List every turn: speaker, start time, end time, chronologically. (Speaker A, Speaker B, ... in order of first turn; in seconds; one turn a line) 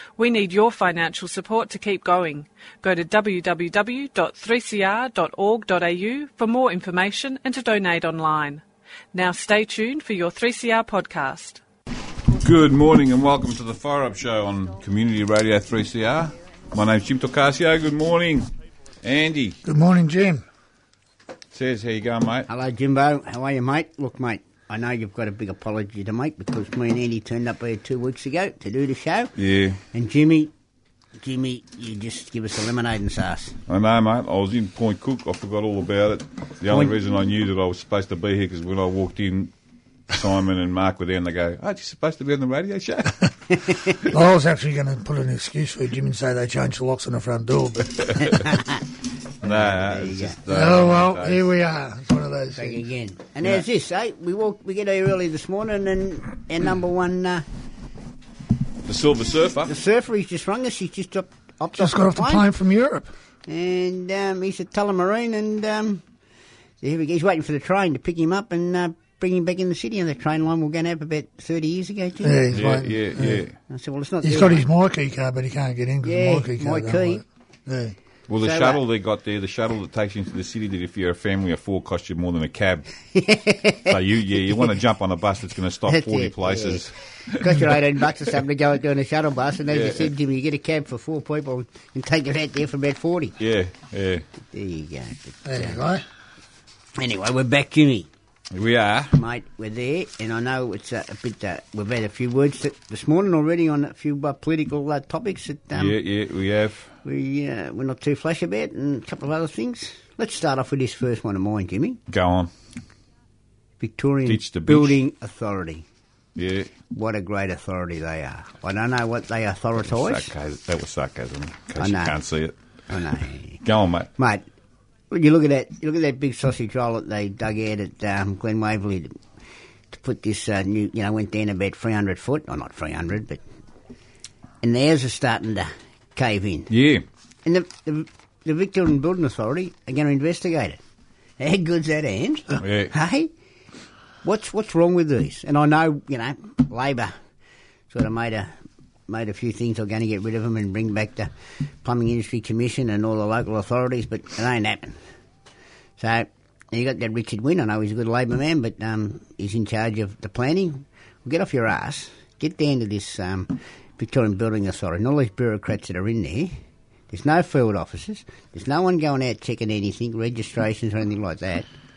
Speaker A: 0.2-8.6
Speaker A: 9.1-11.6
Speaker B: 12.4-18.5
Speaker B: 19.0-19.6
Speaker C: 19.6-20.4
Speaker B: 21.5-22.5
Speaker D: 22.5-29.3
Speaker B: 29.4-29.8
Speaker D: 29.9-30.5
Speaker D: 31.2-33.6
Speaker B: 33.7-39.5
Speaker B: 40.1-43.3
Speaker C: 44.0-48.3
Speaker D: 48.2-48.9
Speaker D: 49.4-50.4
Speaker B: 49.4-51.5
Speaker C: 50.5-52.8
Speaker D: 52.5-57.4
Speaker B: 58.8-59.7
Speaker D: 59.6-62.5
Speaker C: 61.8-63.1
Speaker D: 63.5-66.0
Speaker D: 66.8-72.4
Speaker C: 72.2-73.5
Speaker B: 72.5-73.5
Speaker D: 73.7-74.7
Speaker C: 74.2-78.0
Speaker D: 76.0-77.2
Speaker B: 78.3-82.9
Speaker D: 78.4-78.8
Speaker D: 83.1-84.7
Speaker B: 83.9-87.6
Speaker D: 85.9-93.4
Speaker B: 89.7-90.1
Speaker B: 93.4-94.2
Speaker D: 94.5-95.8
Speaker C: 95.4-96.0
Speaker D: 97.0-98.1
Speaker B: 98.5-99.1
Speaker D: 99.1-106.0
Speaker B: 105.7-106.9
Speaker D: 107.0-112.0
Speaker B: 112.1-112.5
Speaker D: 113.8-115.8
Speaker B: 114.2-115.0
Speaker B: 116.3-116.7
Speaker D: 116.9-120.3
Speaker B: 119.8-122.5
Speaker D: 121.8-122.1
Speaker D: 122.9-123.6
Speaker B: 123.6-124.1
Speaker D: 124.2-124.4
Speaker D: 125.1-129.2
Speaker D: 129.9-133.4
Speaker D: 134.6-136.7
Speaker B: 136.7-137.0
Speaker D: 137.4-140.8
Speaker D: 141.4-143.3
Speaker B: 142.6-142.9
Speaker D: 144.2-147.1
Speaker D: 147.9-148.5
Speaker D: 149.1-151.3
Speaker D: 151.8-155.0
Speaker D: 156.0-166.6
Speaker D: 167.1-171.7